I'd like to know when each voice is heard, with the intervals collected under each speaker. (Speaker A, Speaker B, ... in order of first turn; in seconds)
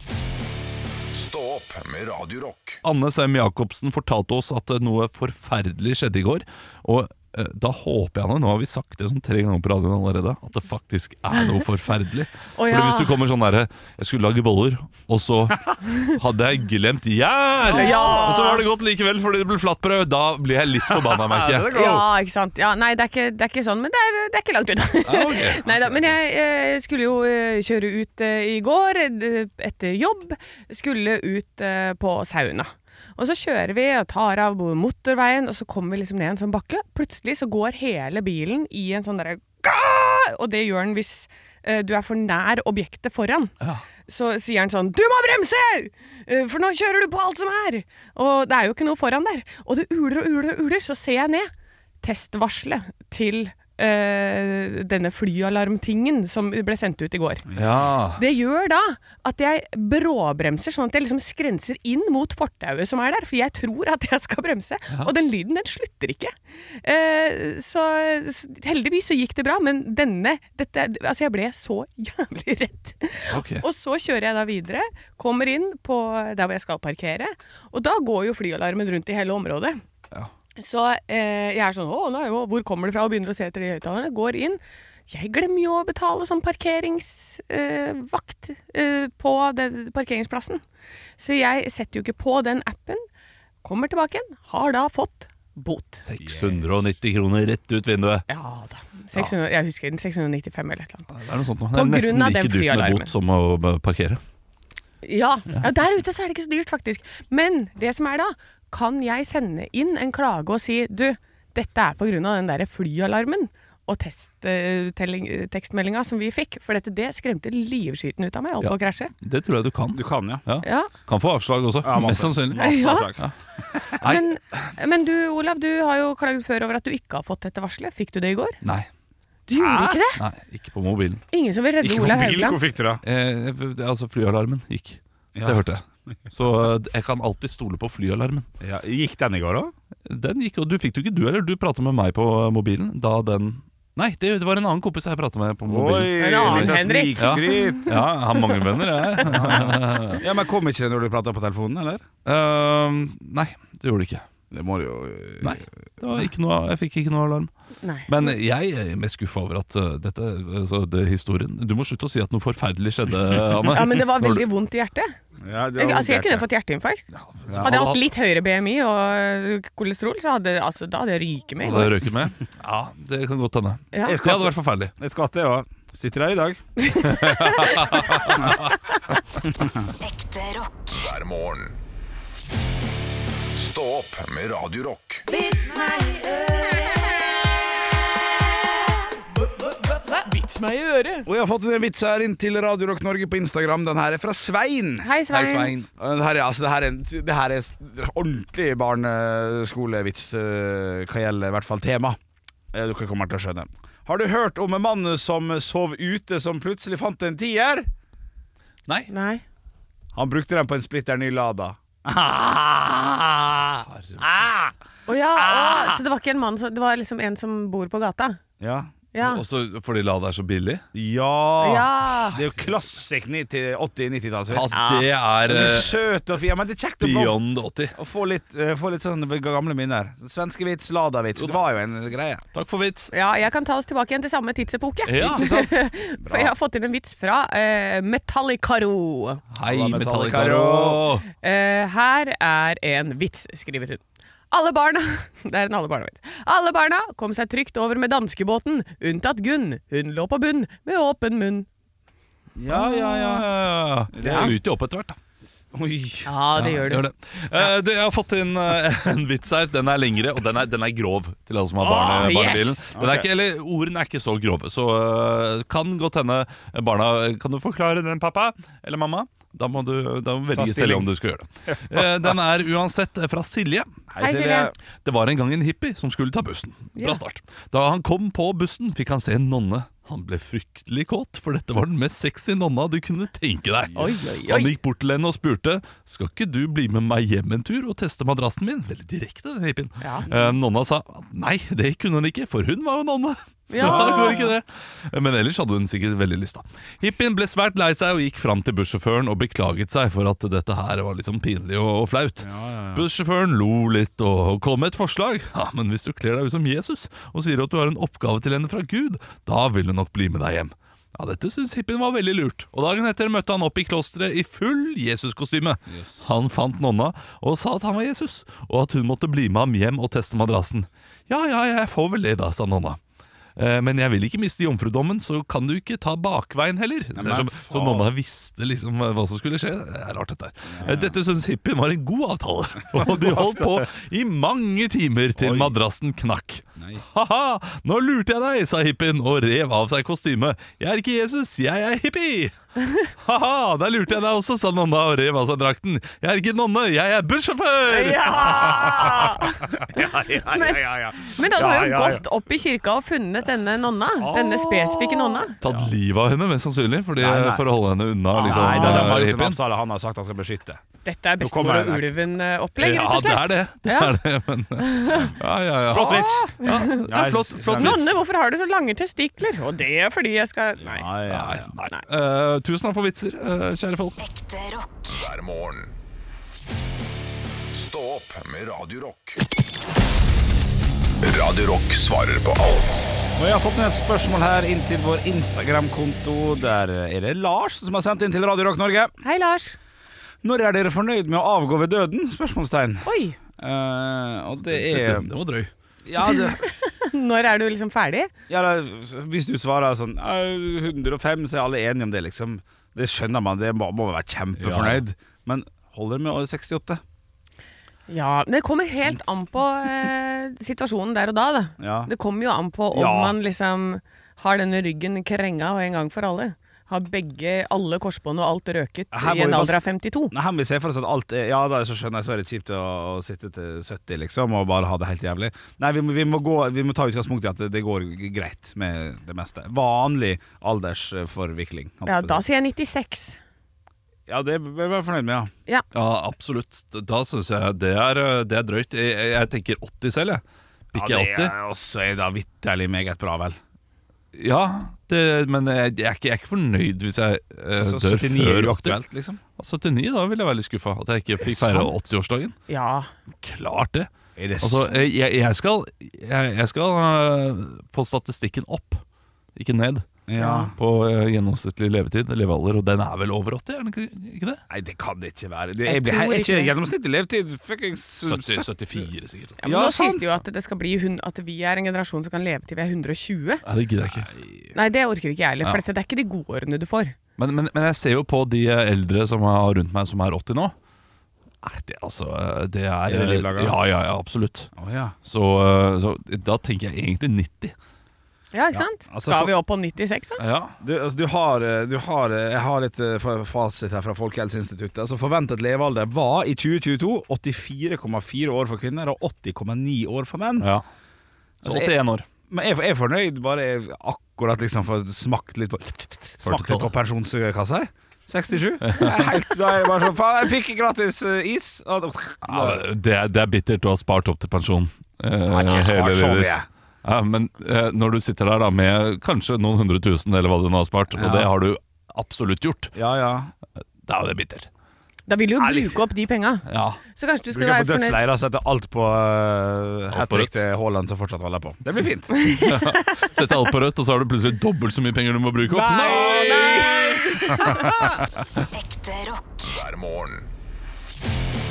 Speaker A: 1.1-2.8, 181.0-181.8, 183.5-185.2, 375.1-375.9, 377.7-379.4, 381.2-383.3, 539.7-540.5
Speaker B: 2.8-21.7, 25.1-26.0, 57.5-58.2, 73.3-73.7, 96.0-98.3, 101.1-104.2, 118.6-123.3, 123.9-124.7, 128.6-128.9, 130.2-131.2, 133.0-138.5, 140.1-150.2, 152.3-154.2, 155.4-157.5, 158.1-164.4, 167.1-168.0, 171.6-174.9, 177.0-178.7, 195.3-195.9, 213.9-214.3, 219.2-220.8, 224.5-225.9, 227.0-227.9, 232.5-233.1, 235.1-235.5, 239.6-241.2, 252.7-255.2, 256.6-273.9, 275.0-323.0, 323.6-342.5, 343.1-348.5, 355.6-359.6, 362.8-368.2, 371.3-374.2, 394.7-395.7, 404.6-405.0, 435.9-441.5, 444.4-449.0, 449.6-452.6, 453.4-459.0, 459.6-464.6, 468.2-469.6, 473.7-474.3, 477.4-480.7, 481.6-484.7, 485.2-487.7, 490.4-490.8, 500.6-500.9, 501.6-502.3, 506.4-506.9, 508.8-509.3, 512.5-522.9, 524.0-524.7, 526.7-527.0, 530.1-530.6, 532.6-536.7
Speaker C: 12.6-13.1, 17.7-18.6, 21.7-43.5, 44.1-51.5, 52.0-57.5, 58.2-79.8, 80.6-90.6, 91.2-93.0, 93.6-96.0, 98.3-101.1, 101.7-103.1, 105.0-119.1, 120.6-120.9, 122.6-123.1, 124.0-128.6, 129.5-130.2, 131.3-132.6, 146.2-147.8, 157.8-158.3, 163.7-165.2, 165.8-167.1, 167.6-171.9, 173.9-174.2, 176.9-177.8, 185.3-187.0, 189.9-191.3, 195.0-195.7, 209.1-209.4, 215.1-218.4, 219.1-219.4, 221.6-222.4, 224.7-225.1, 233.1-239.4, 241.4-251.7, 254.2-254.6, 256.3-257.0, 261.8-262.8, 274.2-274.7, 283.9-284.7, 290.0-290.3, 293.7-294.5, 347.9-350.0, 350.5-355.6, 358.3-359.2, 361.1-364.2, 364.8-365.3, 365.9-367.0, 367.8-371.1, 371.8-372.0, 389.2-389.8, 393.1-393.4, 396.2-398.3, 408.1-420.3, 432.1-433.4, 452.7-453.1, 460.4-460.7, 465.9-466.7, 469.6-473.6, 474.8-477.1, 488.5-490.4, 525.3-528.2, 532.4-532.9, 535.9-537.9
Speaker D: 17.7-18.5, 20.9-22.1, 57.5-57.8, 96.2-96.6, 119.9-120.4, 121.8-124.0, 129.5-130.0, 131.8-133.0, 135.3-135.6, 138.6-139.7, 145.7-148.0, 149.2-152.0, 154.5-156.2, 165.4-166.4, 167.5-167.8, 174.1-176.7, 179.5-179.8, 191.2-195.1, 196.0-202.2, 202.7-207.9, 210.1-214.7, 215.3-216.0, 218.6-218.9, 220.9-224.8, 225.4-227.4, 227.9-232.4, 235.2-236.5, 239.6-241.1, 252.6-253.6, 254.1-254.6, 255.7-256.3, 262.9-263.3, 270.5-271.1, 271.7-272.3, 274.1-274.8, 293.8-294.4, 302.4-303.1, 315.9-316.2, 327.1-328.1, 330.7-331.2, 332.9-333.8, 335.4-335.8, 336.8-337.0, 348.4-352.2, 354.2-355.9, 357.2-357.6, 358.5-360.8, 361.4-362.1, 365.9-368.1, 370.8-371.7, 383.4-389.1, 390.4-395.3, 396.1-396.6, 398.5-407.0, 411.8-412.1, 412.9-413.4, 419.1-432.4, 434.3-435.5, 440.9-443.6, 447.8-449.4, 451.5-451.9, 454.4-454.9, 460.3-460.7, 464.7-468.7, 469.6-470.3, 474.1-474.8, 483.1-483.8, 484.8-485.1, 488.7-489.5, 490.8-500.7, 501.6-501.9, 502.5-512.8, 515.5-516.7, 521.1-521.5, 523.0-523.5, 525.6-526.0, 527.5-532.5, 535.7-538.1
Speaker E: 180.0-181.0, 185.5-186.8, 374.2-375.1, 538.7-539.8